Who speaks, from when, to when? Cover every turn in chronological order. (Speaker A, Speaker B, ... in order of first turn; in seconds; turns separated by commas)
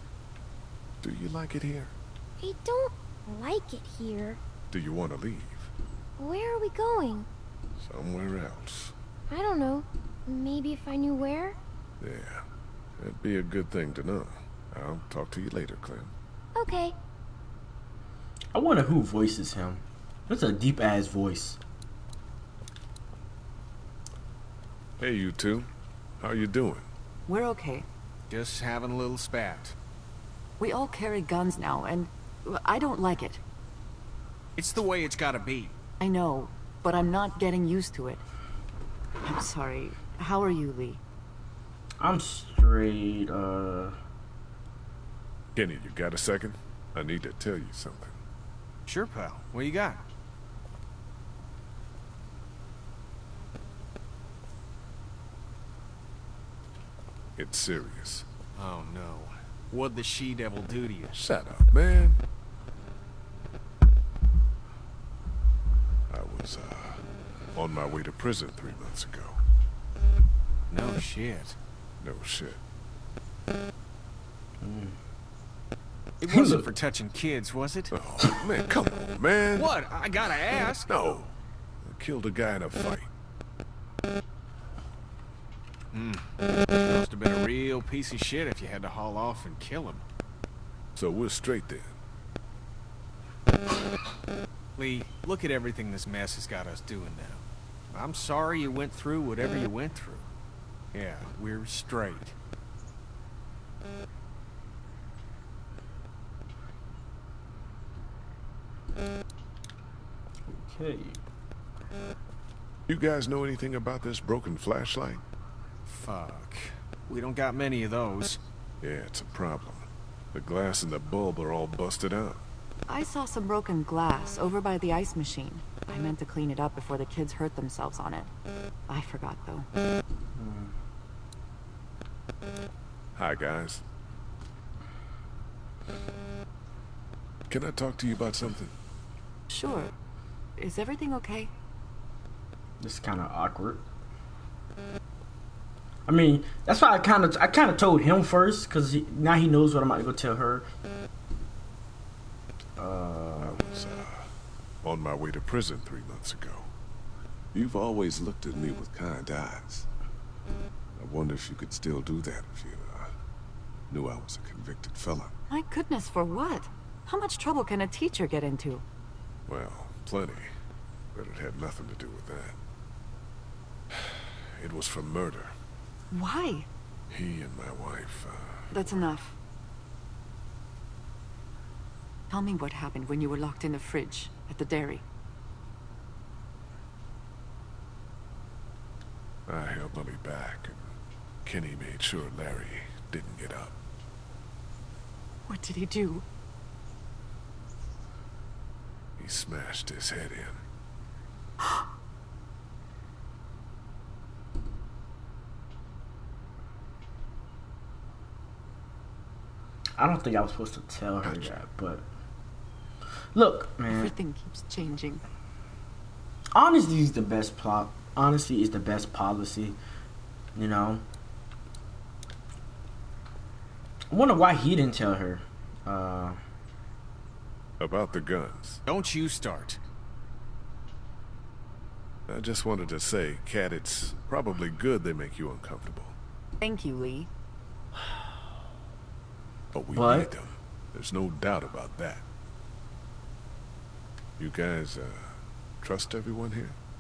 Speaker A: 1.0-1.9, Speaker B: 2.4-4.4, Speaker A: 4.7-5.7, Speaker B: 6.2-7.3, Speaker A: 7.8-8.9, Speaker B: 9.3-11.6, Speaker A: 12.0-12.4, Speaker A: 13.0-16.1, Speaker B: 16.6-16.9, Speaker C: 18.5-21.6, Speaker A: 25.0-25.7, Speaker A: 26.2-26.9, Speaker D: 27.3-27.9, Speaker E: 28.3-29.8, Speaker D: 30.6-33.4, Speaker E: 34.6-35.7, Speaker D: 36.0-38.2, Speaker D: 39.2-41.0, Speaker C: 42.0-44.0, Speaker A: 45.5-48.2, Speaker E: 48.9-50.0, Speaker A: 57.4-58.3, Speaker E: 58.5-61.2, Speaker A: 61.1-62.2, Speaker A: 66.1-67.0, Speaker A: 67.5-69.4, Speaker E: 70.7-71.6, Speaker A: 72.0-72.6, Speaker C: 74.6-75.0, Speaker E: 76.2-77.9, Speaker C: 76.3-76.7, Speaker A: 77.9-79.7, Speaker E: 79.5-80.9, Speaker A: 80.9-83.1, Speaker E: 85.9-90.0, Speaker A: 91.0-91.9, Speaker E: 94.8-100.3, Speaker E: 100.9-102.3, Speaker C: 110.5-111.2, Speaker A: 112.9-115.2, Speaker E: 115.8-118.4, Speaker A: 118.8-122.4, Speaker D: 122.9-128.3, Speaker D: 128.9-129.7, Speaker C: 130.3-130.7, Speaker A: 133.2-133.8, Speaker A: 137.5-138.7, Speaker D: 139.5-139.9, Speaker D: 140.6-141.5, Speaker C: 142.8-143.8, Speaker C: 146.1-150.7, Speaker C: 152.8-153.6, Speaker A: 153.4-154.3, Speaker A: 154.8-156.7, Speaker A: 157.5-159.9, Speaker A: 161.0-163.1, Speaker A: 163.9-165.3, Speaker D: 165.5-168.8, Speaker A: 169.5-170.6, Speaker A: 171.1-172.6, Speaker A: 173.9-175.6, Speaker D: 176.1-176.7, Speaker A: 177.1-178.7, Speaker D: 178.7-179.4, Speaker D: 182.3-185.0, Speaker A: 189.5-190.9, Speaker A: 191.4-193.8, Speaker D: 195.5-196.2, Speaker A: 199.2-200.6, Speaker C: 210.0-212.1, Speaker A: 211.2-211.6, Speaker C: 213.3-214.1, Speaker D: 213.9-215.2, Speaker C: 216.6-219.8, Speaker C: 220.6-221.0, Speaker C: 224.1-226.4, Speaker A: 227.8-228.8, Speaker E: 228.9-229.8, Speaker A: 232.3-236.2, Speaker D: 236.6-237.3, Speaker A: 239.7-242.2, Speaker C: 239.9-240.3, Speaker A: 244.4-246.8